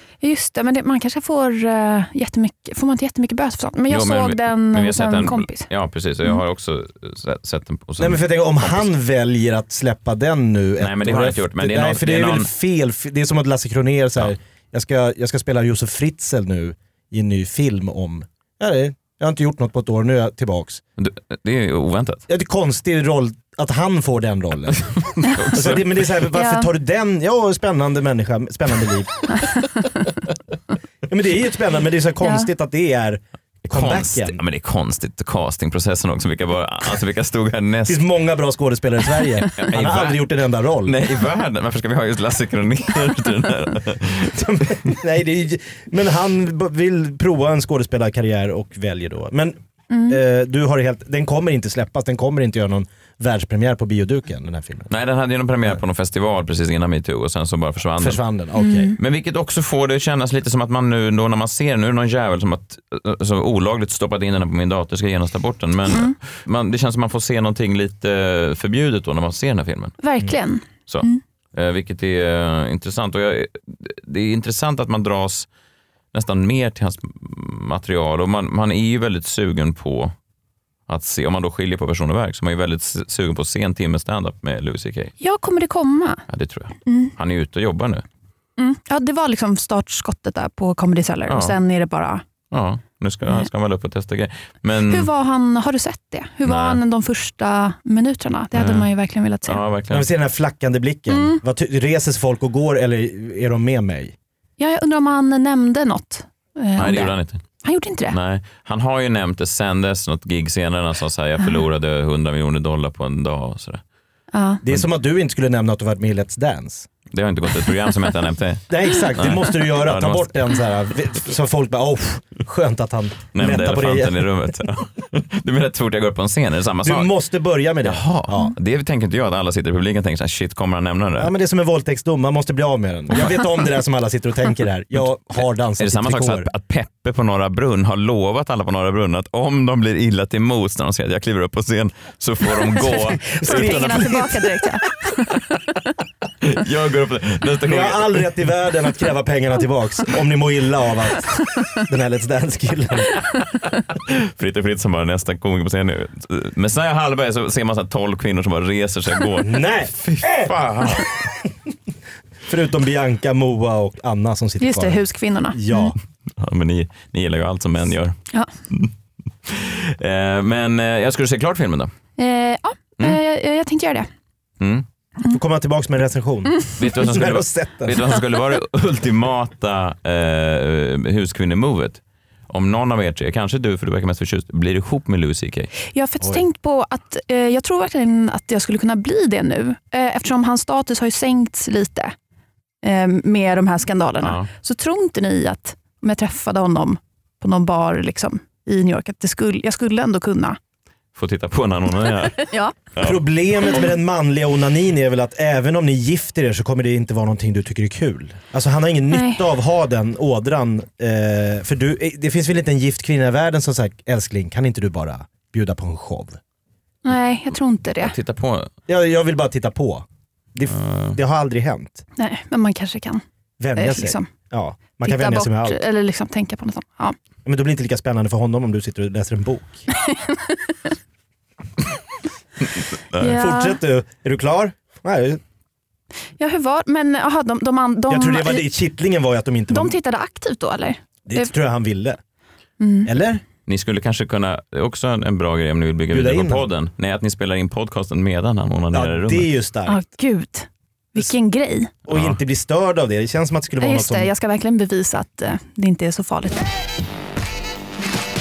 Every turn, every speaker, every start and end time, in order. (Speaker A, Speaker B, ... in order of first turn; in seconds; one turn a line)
Speaker A: 0.2-5.7
Speaker B: 3.9-8.9
Speaker C: 8.0-20.8
Speaker B: 10.8-12.5
Speaker B: 21.0-22.2
Speaker C: 22.3-24.8
Speaker B: 25.3-26.0
Speaker C: 25.5-29.1
Speaker A: 26.3-26.7
Speaker A: 29.3-29.6
Speaker C: 31.1-34.4
Speaker A: 32.2-32.5
Speaker B: 33.7-38.0
Speaker C: 37.9-41.0
Speaker B: 39.5-40.2
Speaker B: 40.9-44.4
Speaker C: 44.2-49.6
Speaker A: 49.9-50.2
Speaker C: 50.1-54.9
Speaker B: 54.9-58.2
Speaker C: 58.0-58.9
Speaker A: 58.6-59.0
Speaker B: 59.0-70.0
Speaker A: 65.9-66.2
Speaker A: 70.0-71.2
Speaker B: 70.9-75.5
Speaker B: 76.1-80.1
Speaker B: 80.9-85.1
Speaker A: 85.2-86.2
Speaker B: 86.3-88.0
Speaker A: 86.9-87.1
Speaker A: 88.6-92.2
Speaker B: 91.3-91.6
Speaker B: 92.5-95.1
Speaker A: 94.9-99.6
Speaker B: 96.5-96.8
Speaker B: 98.5-98.9
Speaker B: 99.5-100.1
Speaker C: 99.9-104.2
Speaker A: 101.1-101.4
Speaker A: 104.6-108.2
Speaker B: 106.8-107.4
Speaker B: 108.1-113.8
Speaker A: 114.3-114.6
Speaker C: 114.6-116.9
Speaker B: 117.1-120.3
Speaker C: 118.7-124.3
Speaker B: 123.3-127.1
Speaker C: 126.8-128.5
Speaker B: 127.8-131.3
Speaker C: 131.2-136.5
Speaker B: 135.8-144.3
Speaker A: 142.8-145.4
Speaker C: 143.3-144.4
Speaker B: 146.4-148.3
Speaker C: 147.6-153.2
Speaker B: 154.1-161.1
Speaker C: 159.4-161.3
Speaker C: 162.5-165.0
Speaker A: 164.6-165.9
Speaker C: 165.5-166.0
Speaker B: 166.4-168.2
Speaker B: 169.5-171.9
Speaker A: 172.2-174.1
Speaker B: 174.6-174.8
Speaker C: 175.3-178.0
Speaker B: 176.8-185.7
Speaker A: 185.9-192.1
Speaker A: 192.8-200.6
Speaker B: 194.2-194.5
Speaker B: 201.2-203.2
Speaker A: 202.4-202.8
Speaker C: 203.0-216.4
Speaker A: 209.1-209.4
Speaker A: 217.1-218.2
Speaker B: 218.0-218.7
Speaker C: 218.9-222.0
Speaker B: 220.7-221.2
Speaker A: 222.2-223.2
Speaker C: 223.6-225.8
Speaker A: 223.8-224.3
Speaker A: 225.0-227.2
Speaker C: 227.4-229.8
Speaker A: 230.1-230.7
Speaker A: 233.2-233.8
Speaker C: 233.2-235.4
Speaker A: 236.4-238.7
Speaker C: 238.1-239.9
Speaker A: 239.7-241.5
Speaker C: 241.3-242.2
Speaker A: 242.8-243.1
Speaker C: 243.1-243.4
Speaker B: 243.7-249.5
Speaker C: 246.1-246.7
Speaker C: 248.9-250.0
Speaker A: 249.9-251.9
Speaker C: 252.1-254.3
Speaker B: 252.1-252.4
Speaker A: 253.8-256.7